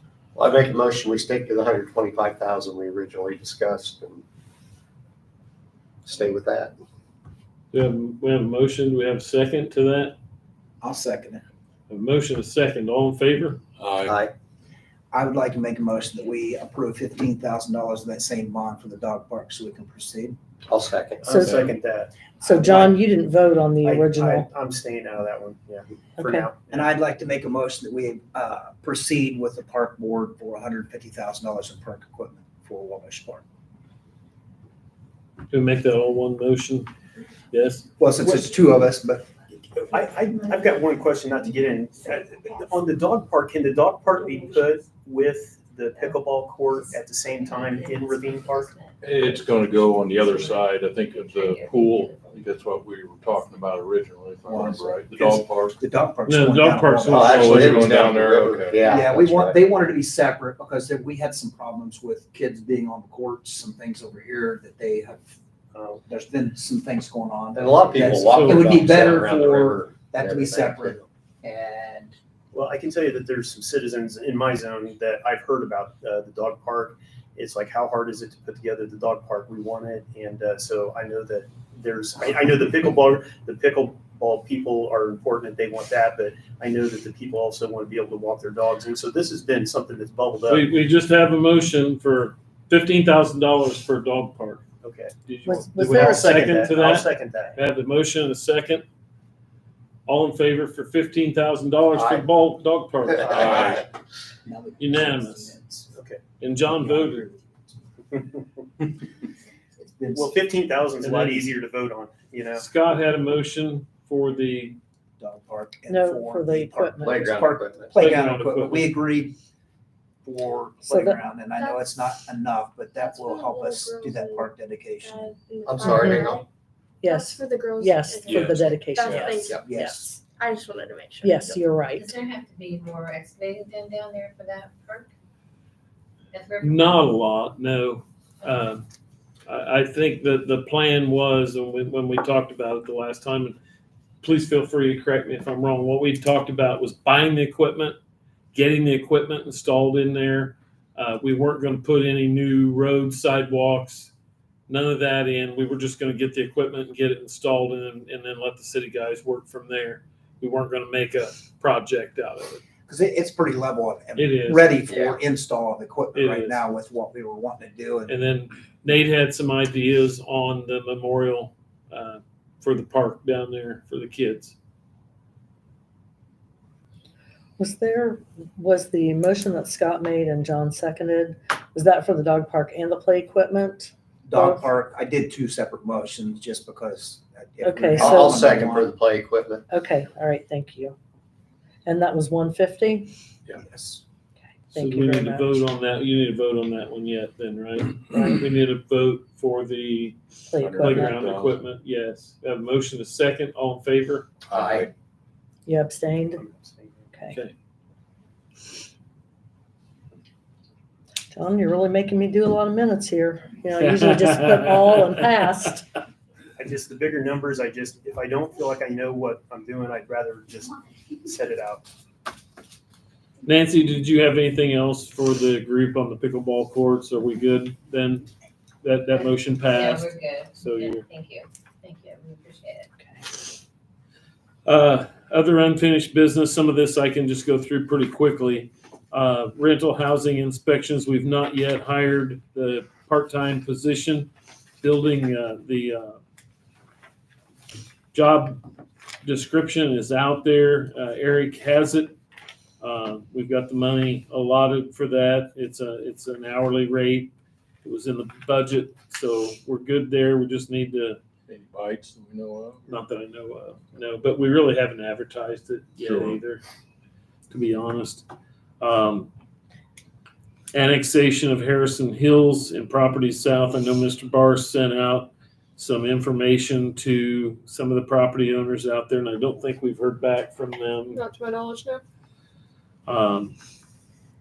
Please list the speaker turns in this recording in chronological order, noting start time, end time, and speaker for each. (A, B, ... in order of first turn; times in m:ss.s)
0:00.3-0:04.2 A
0:06.0-0:06.7 A
0:07.7-0:10.1 B
0:10.8-0:11.4 C
0:11.9-0:13.6 B
0:13.8-0:14.2 D
0:14.0-0:14.3 A
0:15.1-0:20.4 C
0:20.7-0:21.3 A
0:21.2-0:23.0 E
0:21.3-0:21.6 F
0:21.4-0:21.7 D
0:22.5-0:24.5 F
0:23.8-0:26.9 E
0:26.2-0:26.5 F
0:26.7-0:33.4 C
0:35.5-0:36.9 B
0:37.5-0:37.8 B
0:38.0-0:39.3 C
0:39.8-0:48.7 E
0:46.7-0:52.4 G
0:49.0-0:55.8 D
0:54.5-0:58.1 C
0:56.3-0:57.8 B
0:57.1-0:59.6 A
0:57.3-0:58.9 D
0:58.8-1:05.3 C
1:05.7-1:06.0 E
1:06.1-1:12.1 C
1:07.5-1:11.0 A
1:08.2-1:08.7 B
1:12.5-1:30.7 E
1:30.5-1:34.6 B
1:34.8-1:35.1 E
1:35.2-1:38.8 B
1:35.4-1:36.4 F
1:35.8-1:37.5 E
1:40.0-1:43.7 B
1:41.9-1:42.3 A
1:43.1-1:43.8 A
1:43.3-1:43.8 C
1:43.3-1:43.8 D
1:44.4-1:45.9 C
1:44.8-1:45.5 B
1:45.9-1:46.2 E
1:46.4-1:47.3 B
1:46.6-1:47.7 C
1:48.1-1:48.9 E
1:49.8-1:50.3 C
1:50.1-1:52.6 E
1:51.0-1:51.5 B
1:52.5-1:54.8 B
1:55.2-1:59.3 C
1:55.9-1:57.2 F
1:57.0-1:57.9 A
1:57.9-1:59.0 B
2:00.2-2:05.2 C
2:00.9-2:01.2 F
2:01.6-2:01.8 H
2:03.0-2:04.5 H
2:05.0-2:06.4 H
2:05.6-2:06.4 A
2:05.8-2:06.3 F
2:07.0-2:10.2 F
2:07.0-2:11.6 H
2:08.3-2:09.4 D
2:09.5-2:10.2 C
2:11.2-2:12.1 F
2:12.0-2:15.1 G
2:16.3-2:16.9 G
2:16.6-2:18.8 B
2:19.5-2:23.6 B
2:24.2-2:28.0 B
2:28.5-2:34.1 B
2:34.7-2:42.6 B
2:42.9-2:48.1 C
2:44.2-2:44.8 B
2:44.9-2:45.2 A
2:46.1-2:46.6 B
2:48.1-2:54.5 B
2:57.6-3:04.7 F
3:04.3-3:08.9 C
3:07.6-3:08.4 F
3:08.0-3:09.6 A
3:09.7-3:11.0 F
3:11.8-3:13.1 F
3:13.5-3:14.0 C
3:14.5-3:15.6 F
3:14.7-3:20.2 B
3:20.5-3:21.2 F
3:20.6-3:21.7 D
3:20.8-3:24.3 B
3:24.5-3:24.9 D
3:24.5-3:24.9 A
3:25.7-3:26.4 F
3:26.3-3:27.1 E
3:27.1-3:27.4 F
3:31.3-3:35.8 F
3:33.8-3:35.4 B
3:36.6-3:41.8 E
3:43.4-3:48.3 B
3:48.8-3:51.0 B
3:49.1-3:52.9 G
3:54.6-4:04.3 B
4:04.8-4:06.2 B
4:08.1-4:08.6 B
4:09.2-4:12.2 B
4:12.8-4:17.3 B
4:17.8-4:21.2 B
4:21.5-4:22.8 D
4:22.9-4:26.6 B
4:26.0-4:26.4 D
4:27.5-4:28.3 B
4:28.8-4:29.3 B
4:30.7-4:41.2 B
4:41.1-4:42.0 H
4:43.0-4:43.5 B